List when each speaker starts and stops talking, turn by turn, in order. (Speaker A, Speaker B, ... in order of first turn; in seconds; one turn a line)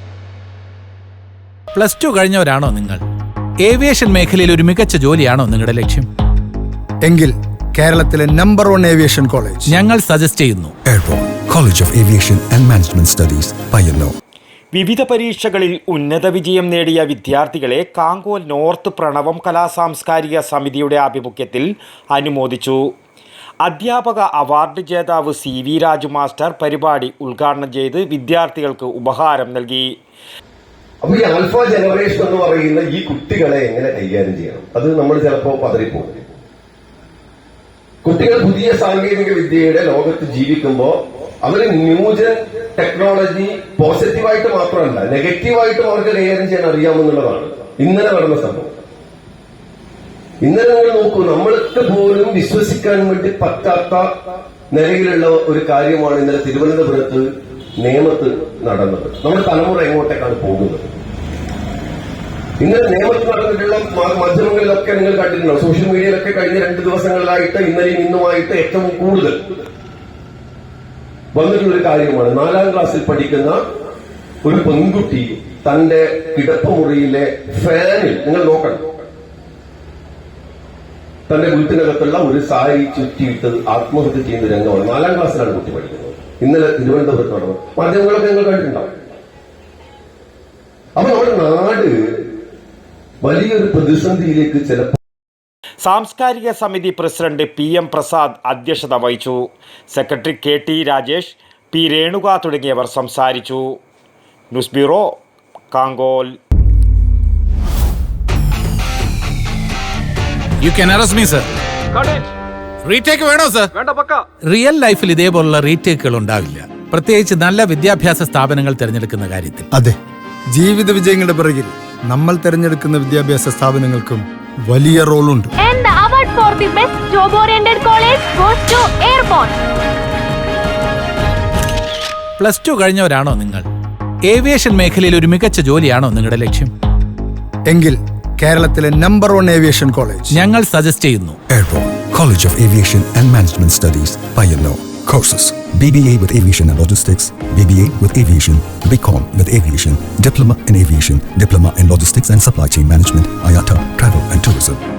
Speaker A: 1.7-3.0
Speaker A: 3.6-6.1
Speaker B: 7.1-9.7
Speaker A: 9.7-10.7
Speaker C: 10.8-14.1
Speaker D: 14.7-22.9
Speaker D: 23.6-29.9
Speaker E: 31.0-36.2
Speaker E: 38.0-48.7
Speaker E: 50.4-54.1
Speaker E: 54.7-57.2
Speaker E: 57.8-60.9
Speaker E: 62.6-69.5
Speaker E: 71.3-73.6
Speaker E: 74.4-78.8
Speaker E: 81.3-88.9
Speaker E: 91.0-91.9
Speaker E: 93.2-94.9
Speaker D: 95.8-103.8
Speaker D: 104.5-105.2
Speaker D: 105.7-106.3
Speaker A: 110.6-111.5
Speaker A: 112.8-113.7
Speaker D: 113.8-114.2
Speaker A: 114.4-119.7
Speaker B: 120.5-125.5
Speaker F: 125.6-129.6
Speaker A: 132.4-133.7
Speaker A: 134.2-136.7
Speaker B: 137.7-140.4
Speaker A: 140.3-141.4
Speaker C: 141.5-154.8